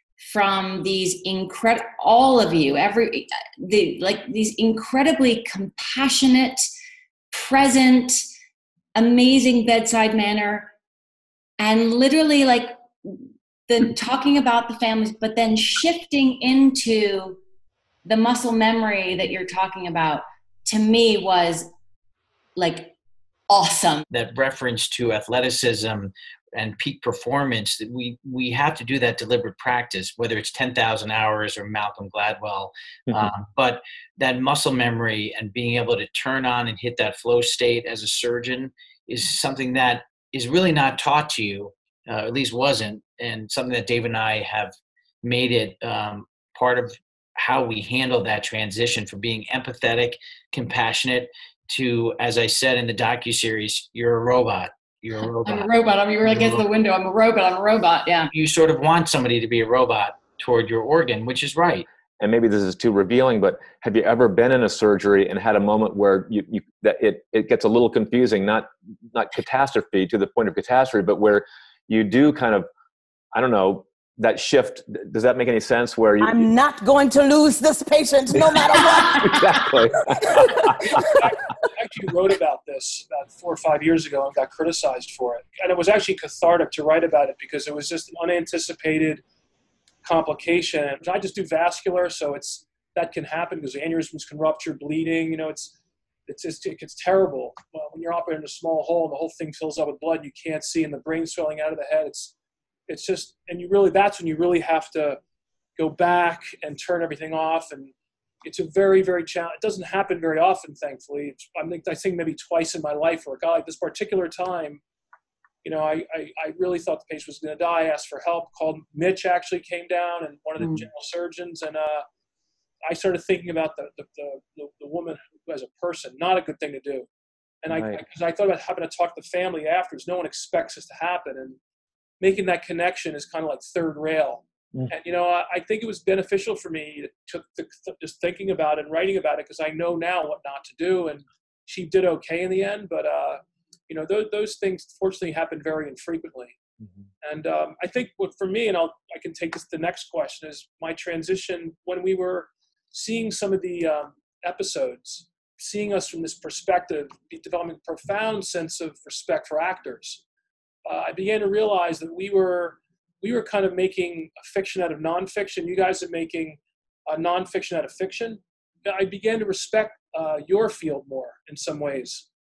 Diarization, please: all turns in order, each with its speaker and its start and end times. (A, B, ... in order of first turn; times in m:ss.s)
0:00.2-0:06.6 A
0:07.3-0:08.2 A
0:08.9-0:10.7 A
0:11.6-0:17.4 A
0:18.0-0:21.7 A
0:22.6-0:22.9 A
0:23.5-0:24.0 A
0:24.1-0:55.7 B
0:55.4-0:58.3 A
0:56.2-0:56.6 B
0:58.3-1:01.9 B
1:02.2-1:12.7 C
1:13.3-1:16.5 C
1:16.2-1:19.6 D
1:19.0-1:21.0 C
1:21.0-1:29.2 E
1:30.0-1:35.8 E
1:36.3-1:42.3 E
1:42.9-1:45.2 E
1:45.8-1:47.9 E
1:48.4-1:54.8 E
1:55.6-2:02.0 E
2:02.8-2:07.1 E
2:07.6-2:11.6 E
2:07.7-2:08.0 C
2:12.2-2:26.6 E
2:27.2-2:40.2 E
2:40.8-2:52.2 E